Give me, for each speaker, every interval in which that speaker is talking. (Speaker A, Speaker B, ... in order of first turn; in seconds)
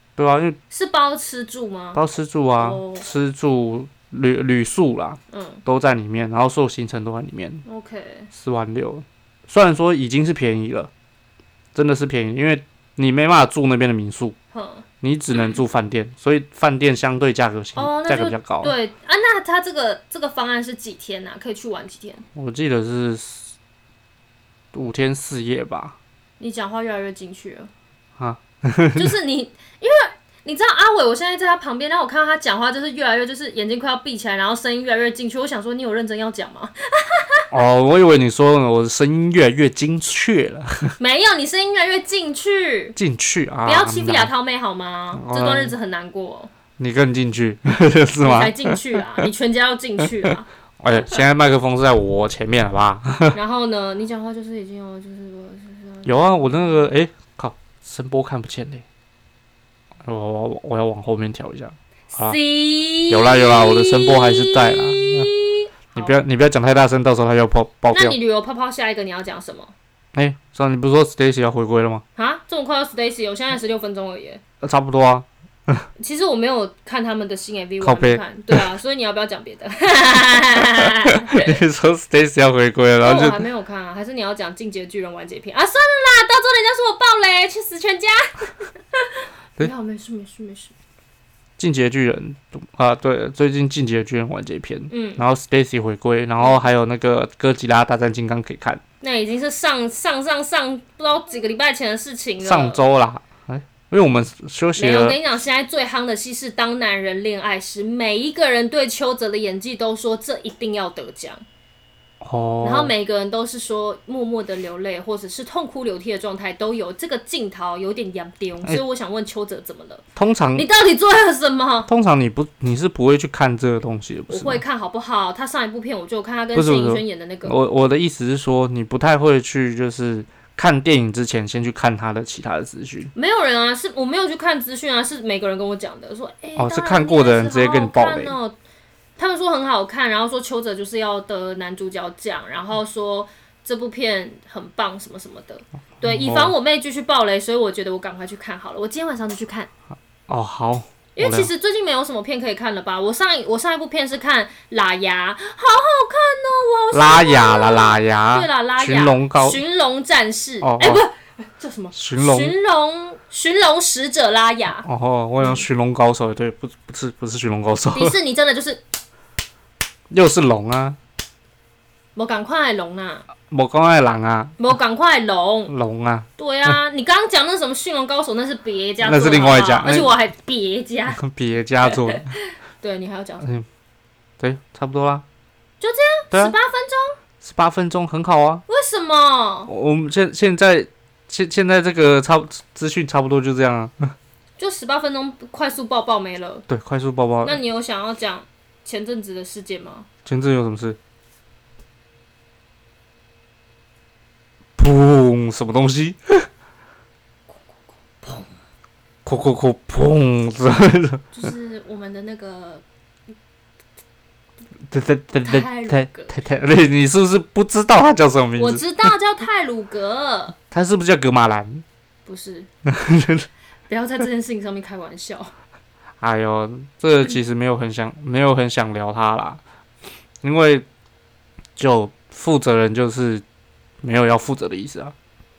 Speaker A: 0.1-0.6, 1.9-7.6, 8.3-10.9, 11.7-14.3, 15.0-18.7, 22.3-23.5, 24.7-25.9, 28.2-29.1, 37.5-40.9, 43.0-44.3, 45.1-45.7, 46.8-49.2, 50.0-50.3, 50.8-53.4, 56.0-58.8, 60.0-62.4, 63.1-65.3, 65.9-68.2, 70.1-72.0, 74.6-75.8, 77.8-78.6, 80.6-83.4, 91.6-98.8, 102.4-105.2, 112.2-112.9, 120.2-120.7, 121.9-124.6, 126.5-133.1, 136.6-138.3, 146.0-146.5, 150.3-151.5, 156.9-159.6, 160.6-161.0, 161.9-162.5, 164.8-168.2, 170.1-171.0, 173.5-174.6, 175.7-176.8, 179.0-180.1, 181.2-182.3, 184.4-185.2, 187.4-188.6, 189.7-194.1, 196.7-197.6, 200.2-201.0, 204.8-206.5, 209.2-211.3, 214.9-219.1, 220.7-221.8, 222.8-223.5, 226.2-229.6, 230.4-230.8, 231.8-233.4, 234.0-235.1
Speaker B: 0.7-2.0, 2.6-3.0, 5.3-5.6, 7.6-8.3, 14.5-15.6, 17.8-22.2, 26.4-27.7, 28.9-37.4, 41.0-43.0, 43.6-46.5, 48.2-50.5, 53.3-56.9, 62.1-66.1, 67.9-69.7, 72.2-74.4, 76.0-81.5, 83.0-90.7, 94.9-95.2, 99.0-102.8, 104.8-111.4, 112.6-120.0, 120.5-121.9, 124.3-127.5, 133.1-138.6, 139.2-149.7, 151.2-164.8, 167.9-168.8, 172.1-173.2, 174.6-175.7, 176.4-181.2, 181.8-183.5, 185.8-187.2, 188.7-189.7, 194.6-196.7, 197.4-200.1, 207.5-208.5, 211.3-212.8, 215.3-216.3, 218.6-220.6, 222.2-222.7, 223.9-225.5